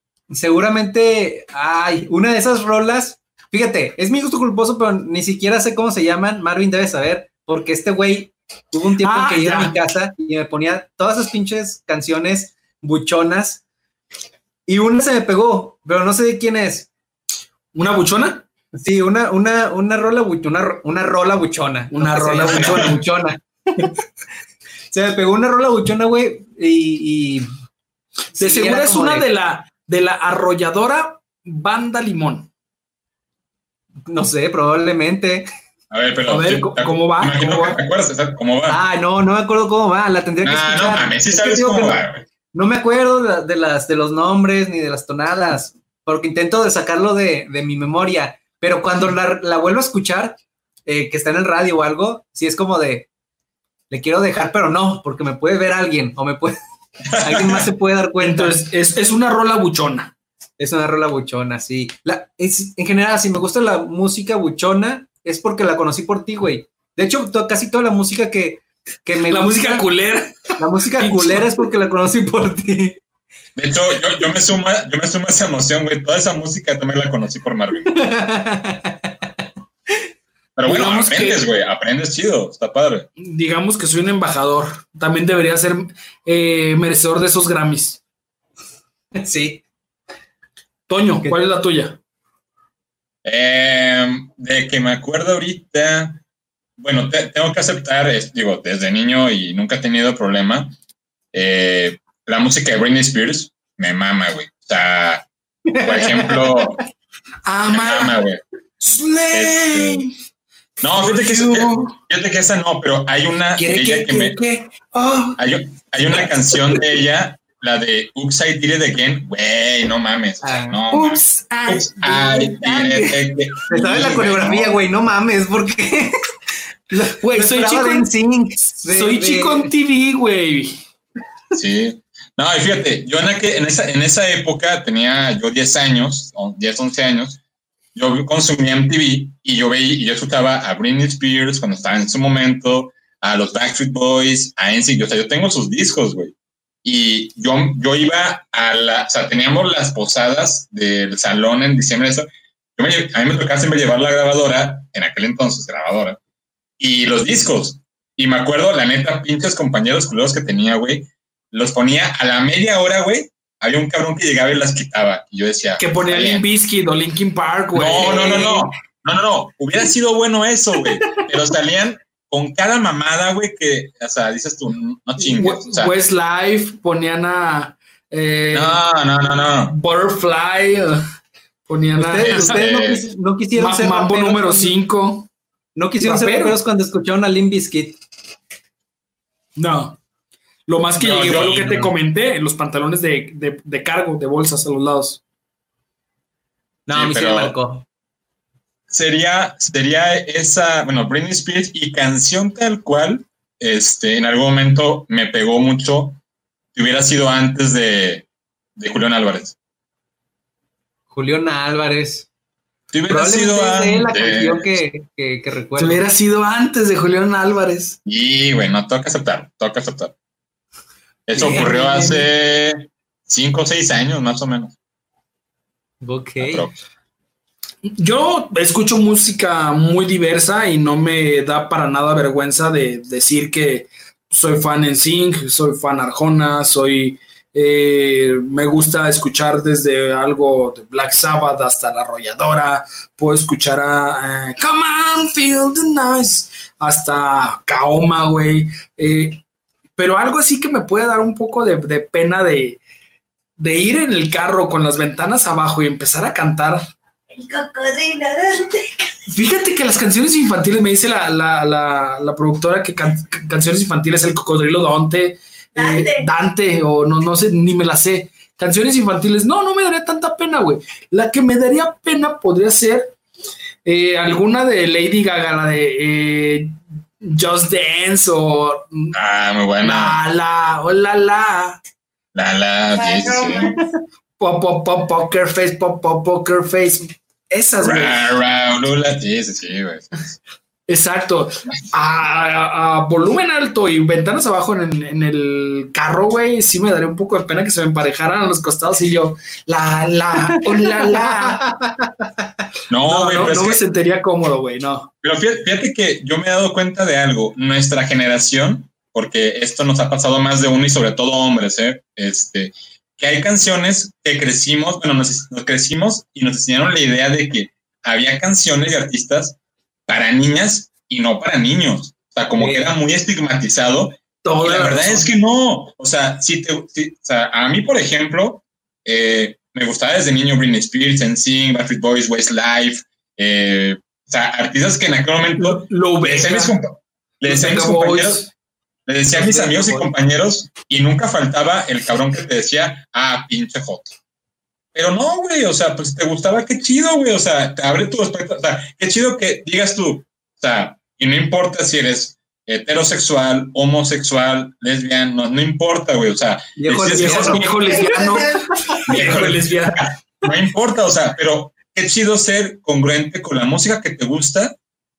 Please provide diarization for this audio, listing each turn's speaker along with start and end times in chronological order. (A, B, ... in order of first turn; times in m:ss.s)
0:00.3-0:13.6 A
0:09.0-0:09.8 B
0:14.7-0:16.9 A
0:17.7-0:18.4 B
0:18.8-0:23.9 A
0:21.9-0:23.0 B
0:22.5-0:22.9 C
0:24.9-0:27.5 A
0:28.3-0:29.3 A
0:28.4-0:32.5 B
0:34.1-0:35.5 A
0:35.9-0:38.8 C
0:36.3-0:37.8 B
0:38.7-0:53.1 A
0:40.4-0:42.2 C
0:53.9-0:56.6 A
0:57.1-0:57.7 C
0:57.2-0:58.6 A
0:58.2-1:00.1 B
1:00.6-1:09.9 A
1:09.3-1:11.5 B
1:10.6-1:13.0 A
1:13.6-1:18.0 C
1:17.9-1:19.1 A
1:20.6-1:23.1 C
1:20.6-1:21.5 B
1:23.2-1:28.0 B
1:29.2-1:29.6 A
1:30.9-1:32.0 B
1:33.2-1:36.2 C
1:36.8-1:40.7 C
1:41.3-1:45.3 C
1:45.7-1:46.6 A
1:45.8-1:46.8 C
1:47.4-1:48.2 B
1:47.7-1:48.4 C
1:48.8-1:50.1 B
1:49.3-1:50.0 C
1:50.8-1:54.4 C
1:51.0-1:51.9 B
1:53.6-1:55.4 B
1:55.4-2:04.8 C
2:00.4-2:00.8 A
2:00.9-2:03.2 B
2:03.7-2:06.2 A
2:06.9-2:08.1 B
2:07.3-2:09.7 A
2:08.7-2:10.8 B
2:11.5-2:17.4 C
2:18.0-2:36.2 C
2:36.8-2:46.5 C
2:45.8-2:48.7 B
2:47.7-2:56.0 C
2:55.2-2:58.8 B
2:58.5-2:59.8 C
2:59.7-3:01.0 B
3:01.7-3:02.6 B
3:02.0-3:04.8 A
3:02.2-3:03.0 C
3:03.6-3:05.3 B
3:05.8-3:08.0 A
3:06.0-3:06.6 B
3:09.6-3:10.0 B
3:10.7-3:15.2 B
3:11.0-3:11.9 C
3:11.0-3:11.9 A
3:16.9-3:17.8 A
3:16.9-3:17.6 C
3:18.9-3:26.2 C
3:26.8-3:28.3 C
3:28.8-3:29.6 C
3:31.1-3:32.3 A
3:32.9-3:34.8 C
3:33.1-3:36.0 A
3:35.8-3:38.0 B
3:38.1-3:40.1 C
3:41.3-3:44.8 C
3:41.4-3:41.8 A
3:41.4-3:42.3 B
3:46.0-3:46.7 A
3:46.4-3:46.8 C
3:47.9-4:09.4 B
4:10.0-4:12.8 B
4:13.6-4:16.8 B
4:17.4-4:19.0 D
4:19.3-4:33.1 B
4:25.8-4:26.3 D
4:33.8-4:39.2 B
4:39.1-4:40.2 C
4:39.8-4:41.8 B
4:42.4-4:43.8 C
4:43.0-4:43.8 D
4:44.4-4:48.3 B
4:47.8-4:50.4 C
4:50.9-5:01.6 B
5:01.2-5:02.3 A
5:02.9-5:03.8 C
5:03.1-5:05.1 B
5:05.2-5:38.4 C
5:22.6-5:23.0 A
5:24.4-5:25.3 B
5:35.6-5:36.8 B
5:37.4-5:38.5 B
5:39.1-5:44.2 C
5:39.3-5:40.1 A
5:45.0-5:58.1 C
5:56.8-5:57.7 A
5:57.1-6:00.1 B
5:58.1-5:58.6 D
5:59.1-6:04.8 C